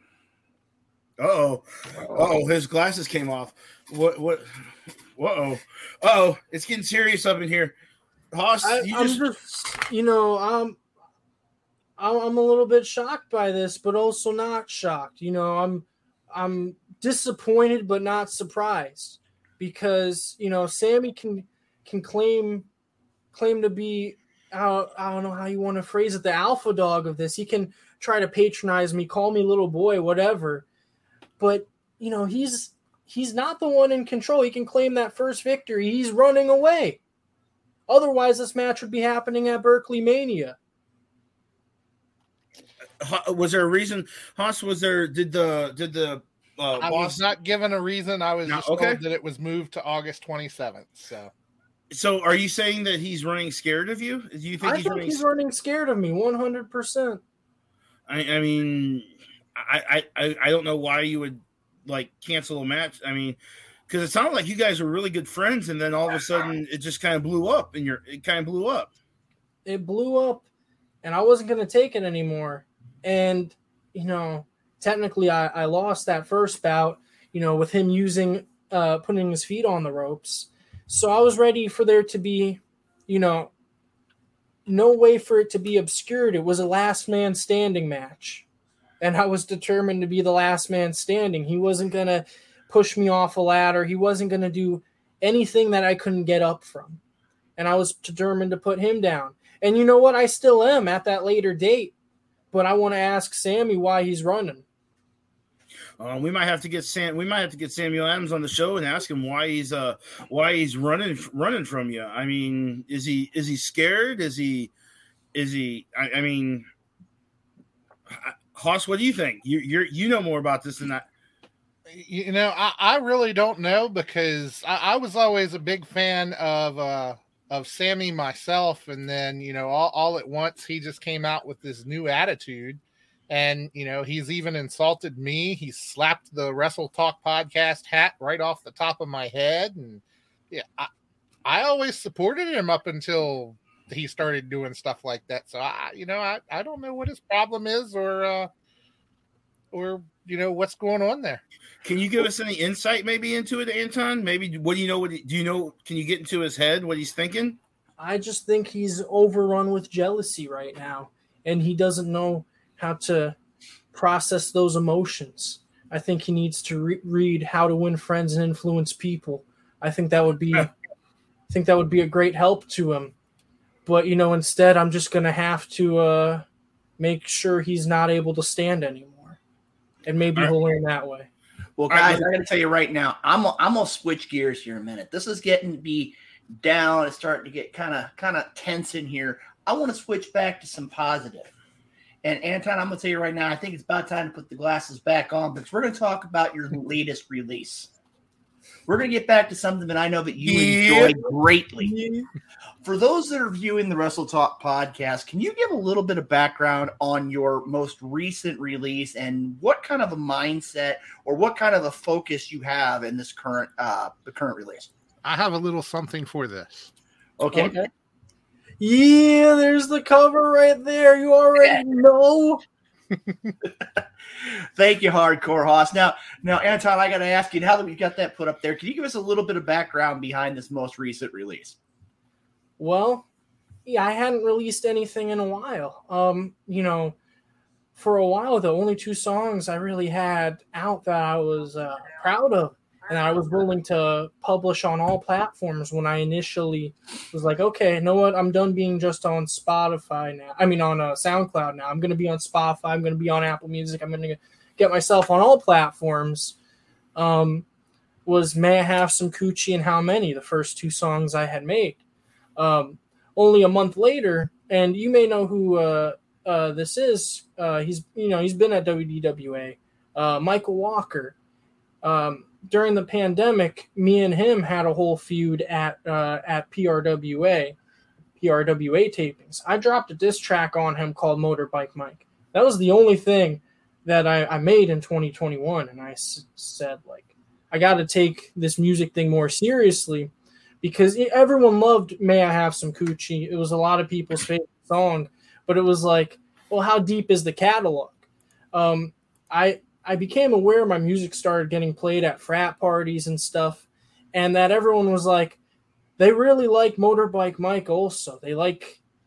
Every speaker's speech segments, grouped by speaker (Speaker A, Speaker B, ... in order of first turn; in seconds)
Speaker A: 1.2-4.6, 5.2-7.8, 8.3-9.3, 43.0-47.2, 48.5-49.0, 51.9-55.2, 58.1-69.0, 106.0-114.7, 115.3-116.7, 118.1-121.1, 151.8-157.6, 181.9-182.3, 200.4-201.2, 217.4-217.7
Speaker B: 8.6-10.8, 12.0-22.7, 23.3-30.7, 31.4-37.0, 37.9-40.6, 54.6-57.2, 69.7-70.5, 71.0-83.5, 84.7-88.5, 89.0-97.0, 97.6-102.0, 102.5-104.7, 158.0-163.4, 163.9-170.7, 171.5-173.1, 173.9-176.4, 177.0-179.4, 180.1-181.3, 201.8-202.3, 217.6-217.9, 218.8-222.6, 232.8-233.3, 233.9-237.2, 237.9-256.6, 257.2-257.6, 258.3-262.0, 262.6-271.4, 272.0-277.8, 278.4-290.3, 290.8-305.6, 306.2-309.0
Speaker C: 46.8-51.3, 121.9-140.9, 141.4-148.5, 149.7-151.4, 215.2-216.9
Speaker D: 181.8-191.5, 192.2-197.9, 198.9-201.9, 202.8-214.9, 221.6-221.8, 224.8-231.8